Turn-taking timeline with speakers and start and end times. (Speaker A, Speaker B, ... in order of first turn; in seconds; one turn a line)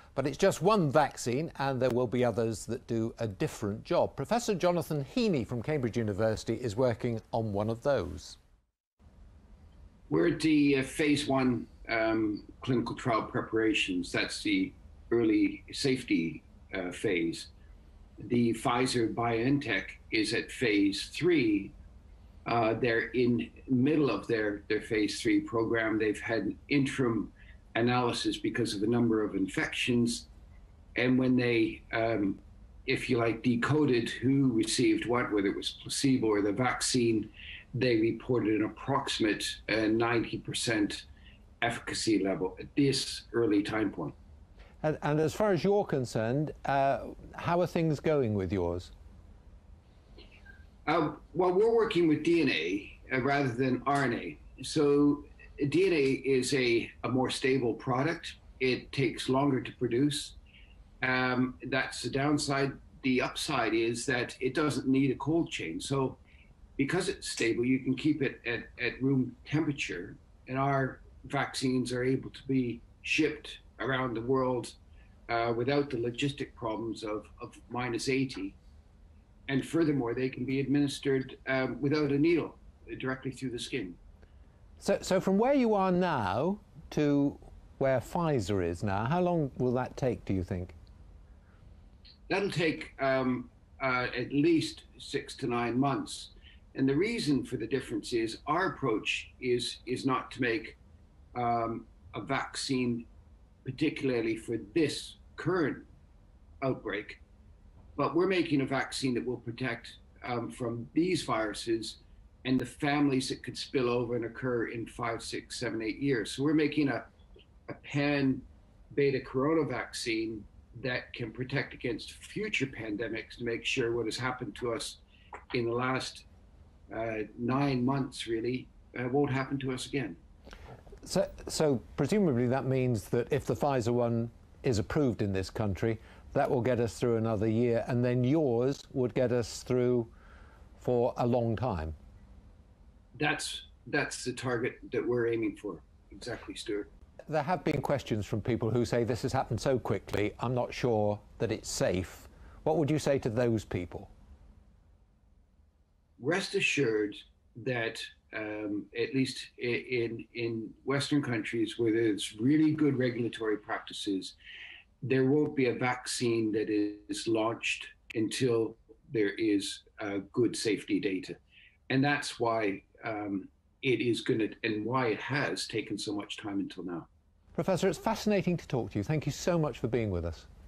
Speaker A: 0.1-8.4
Speaker B: 10.1-17.5
Speaker B: 18.2-21.7
Speaker B: 22.4-30.3
Speaker B: 30.9-41.0
Speaker B: 41.6-44.1
Speaker A: 44.8-48.9
Speaker B: 50.8-60.4
Speaker B: 61.0-66.2
Speaker B: 66.8-74.8
Speaker B: 75.3-78.6
Speaker B: 79.5-84.0
Speaker A: 84.8-90.7
Speaker B: 92.3-100.8
Speaker B: 101.3-103.1
Speaker B: 103.6-105.9
Speaker B: 106.6-107.2
Speaker B: 108.0-117.1
Speaker B: 117.7-125.0
Speaker B: 125.5-126.2
Speaker B: 126.9-130.2
Speaker A: 131.0-140.1
Speaker A: 140.8-141.9
Speaker B: 143.2-146.9
Speaker A: 147.3-154.1
Speaker B: 156.2-164.3
Speaker B: 165.0-177.1
Speaker A: 177.5-180.5